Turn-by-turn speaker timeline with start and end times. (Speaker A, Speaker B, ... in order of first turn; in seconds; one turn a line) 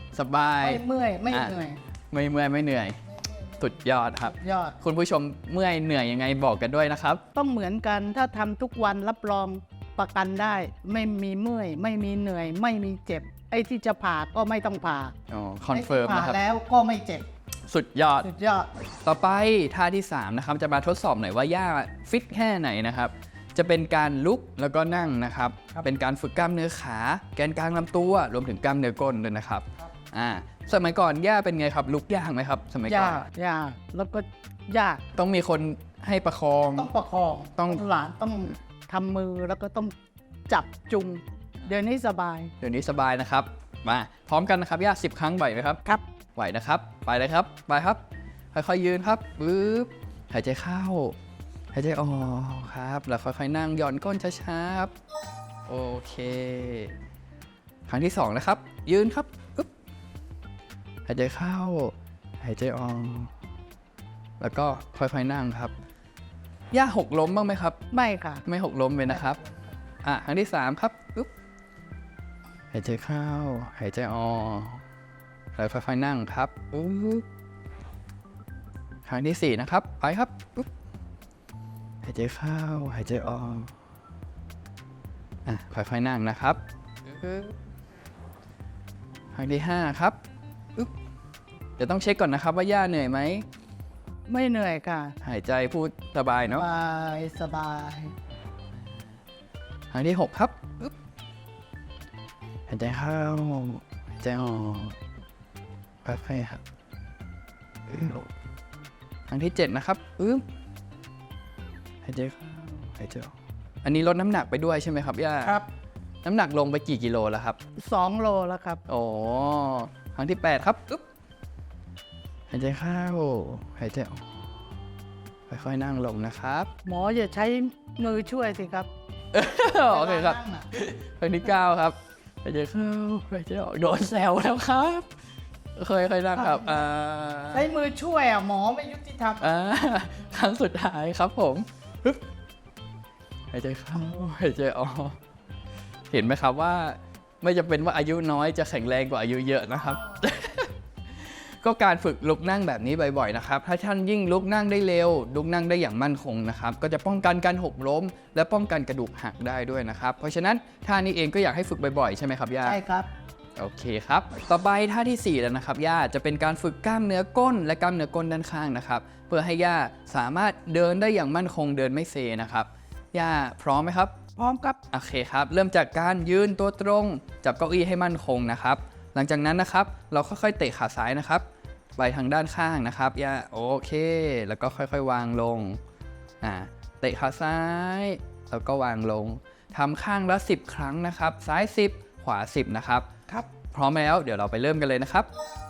Speaker A: 0.1-1.6
Speaker B: 0.6-1.8
Speaker A: 2.1-3.0
Speaker A: 3.6-7.2
Speaker B: 4.2-4.8
Speaker B: 7.3-15.1
Speaker A: 15.3-16.4
Speaker B: 15.7-17.2
Speaker A: 17.7-18.3
Speaker B: 18.2-18.7
Speaker A: 19.0-33.2
Speaker B: 32.9-35.0
Speaker A: 35.1-36.9
Speaker B: 36.8-39.9
Speaker B: 40.5-42.5
Speaker A: 42.6-45.8
Speaker A: 46.4-48.0
Speaker A: 48.5-51.1
Speaker A: 51.7-54.9
Speaker A: 55.7-56.9
Speaker A: 57.9-59.7
Speaker A: 61.0-63.3
Speaker A: 64.4-65.7
Speaker A: 66.7-67.8
Speaker B: 67.9-68.4
Speaker A: 68.4-69.4
Speaker B: 69.1-69.6
Speaker A: 70.0-71.3
Speaker A: 72.7-74.8
Speaker A: 75.5-77.2
Speaker A: 79.1-80.7
Speaker A: 82.0-83.7
Speaker A: 85.5-87.5
Speaker A: 89.3-90.2
Speaker A: 91.8-93.5
Speaker B: 94.3-95.1
Speaker A: 95.2-96.7
Speaker B: 96.5-98.1
Speaker A: 99.9-100.9
Speaker A: 102.7-105.0
Speaker A: 106.0-106.6
Speaker A: 107.9-108.3
Speaker A: 109.3-110.4
Speaker A: 112.0-113.3
Speaker A: 113.8-115.6
Speaker A: 116.2-117.6
Speaker B: 117.8-118.8
Speaker A: 118.9-121.0
Speaker A: 122.5-124.3
Speaker A: 125.5-126.7
Speaker B: 126.8-128.9
Speaker A: 129.3-135.1
Speaker B: 129.9-130.6
Speaker A: 135.8-137.7
Speaker B: 136.4-136.8
Speaker B: 137.5-139.5
Speaker A: 139.4-142.2
Speaker A: 143.5-145.2
Speaker A: 146.1-162.8
Speaker B: 162.6-163.1
Speaker A: 163.6-174.1
Speaker B: 174.3-174.8
Speaker A: 174.9-181.4
Speaker A: 182.0-185.8
Speaker A: 186.4-193.1
Speaker A: 193.7-195.3